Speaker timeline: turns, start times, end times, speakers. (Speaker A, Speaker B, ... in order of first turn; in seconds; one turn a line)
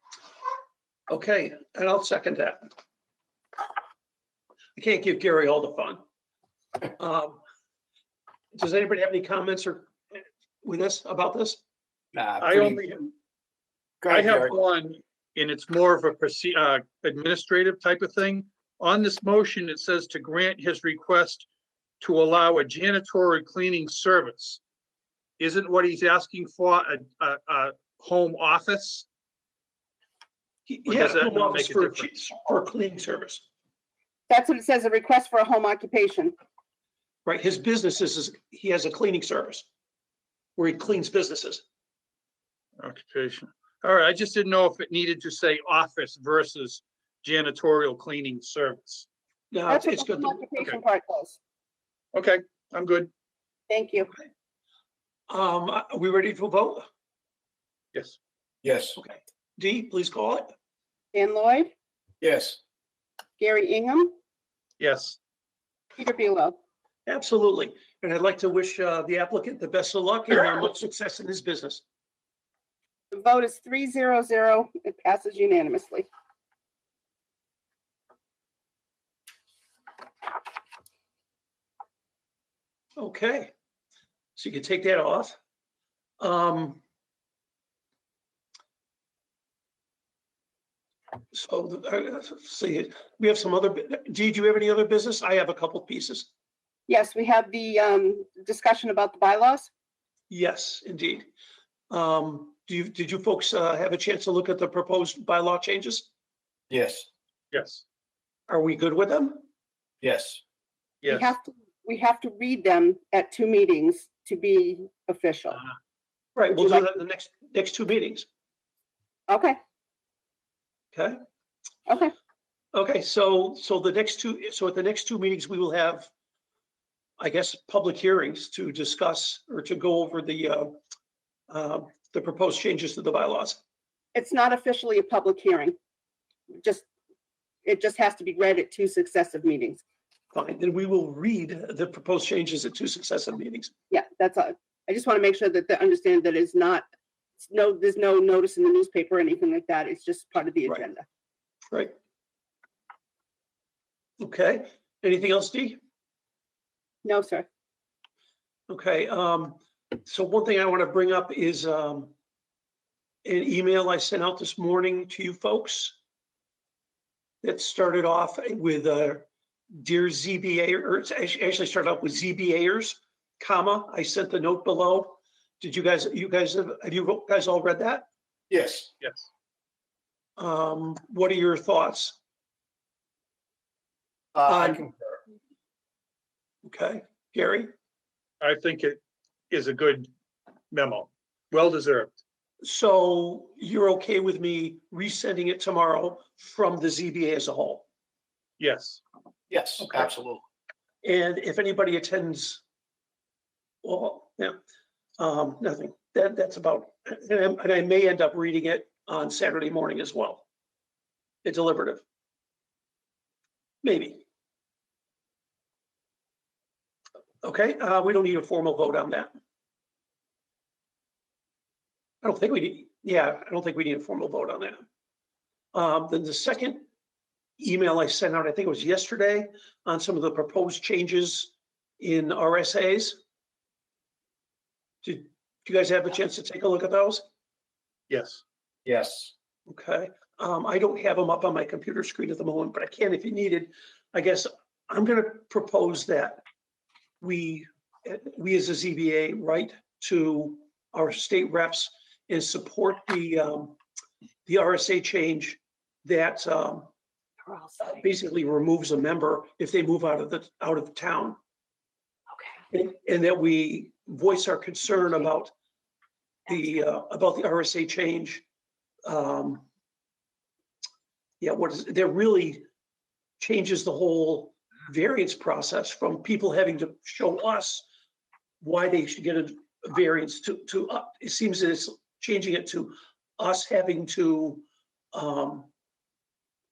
Speaker A: 1.1-2.7
Speaker A: 4.8-6.0
Speaker A: 7.0-7.4
Speaker A: 8.5-11.6
Speaker B: 12.1-12.8
Speaker C: 12.4-13.1
Speaker B: 14.0-14.5
Speaker C: 14.1-21.4
Speaker C: 22.0-24.6
Speaker C: 25.4-29.1
Speaker A: 30.7-33.4
Speaker C: 30.9-32.1
Speaker D: 34.3-36.3
Speaker A: 37.2-39.6
Speaker A: 40.6-41.6
Speaker C: 42.8-49.1
Speaker A: 49.5-50.4
Speaker D: 49.7-51.4
Speaker C: 52.1-53.1
Speaker D: 53.7-54.1
Speaker A: 55.3-56.8
Speaker B: 58.6-59.0
Speaker A: 59.0-60.5
Speaker D: 61.1-61.7
Speaker B: 62.2-62.6
Speaker D: 63.4-64.1
Speaker C: 64.8-65.2
Speaker D: 66.0-66.5
Speaker A: 67.0-71.8
Speaker D: 73.1-76.1
Speaker A: 83.0-83.5
Speaker A: 84.3-85.4
Speaker A: 86.2-86.8
Speaker A: 91.3-96.3
Speaker D: 96.9-99.7
Speaker A: 100.3-101.3
Speaker A: 101.9-106.1
Speaker B: 106.7-107.1
Speaker C: 107.5-107.8
Speaker A: 108.5-109.4
Speaker B: 110.0-110.4
Speaker C: 111.0-111.3
Speaker D: 111.1-115.6
Speaker A: 116.3-118.3
Speaker D: 116.6-116.8
Speaker D: 119.3-119.6
Speaker A: 120.9-121.2
Speaker D: 121.9-122.1
Speaker A: 122.7-126.1
Speaker A: 127.2-130.8
Speaker A: 131.5-133.6
Speaker D: 134.1-135.7
Speaker D: 136.5-136.8
Speaker D: 137.6-139.8
Speaker A: 140.3-143.7
Speaker D: 143.9-146.8
Speaker D: 147.4-151.0
Speaker A: 154.2-155.8
Speaker D: 157.0-157.5
Speaker A: 158.7-162.1
Speaker A: 163.2-165.9
Speaker A: 167.4-178.1
Speaker B: 178.5-178.9
Speaker A: 180.4-182.2
Speaker B: 184.3-185.2
Speaker A: 184.4-184.8
Speaker A: 186.6-187.7
Speaker C: 188.4-189.0
Speaker C: 189.5-190.1
Speaker C: 190.7-192.1
Speaker A: 192.6-197.8
Speaker C: 198.6-199.0
Speaker B: 199.5-200.4
Speaker A: 199.8-200.1
Speaker A: 201.0-202.6
Speaker A: 203.8-204.6
Speaker A: 205.2-210.4
Speaker A: 211.4-212.0
Speaker A: 213.8-214.2
Speaker A: 217.4-219.3
Speaker A: 222.2-224.8
Speaker A: 225.7-226.8
Speaker A: 227.6-233.2
Speaker A: 235.0-237.2
Speaker C: 238.1-238.4
Speaker B: 238.8-239.3
Speaker A: 239.7-246.4
Speaker A: 247.2-253.8
Speaker A: 254.4-256.9
Speaker A: 257.8-261.4
Speaker A: 262.7-265.5
Speaker A: 266.5-268.4
Speaker A: 269.0-269.6
Speaker A: 271.4-272.6
Speaker A: 273.4-277.9
Speaker A: 278.6-285.7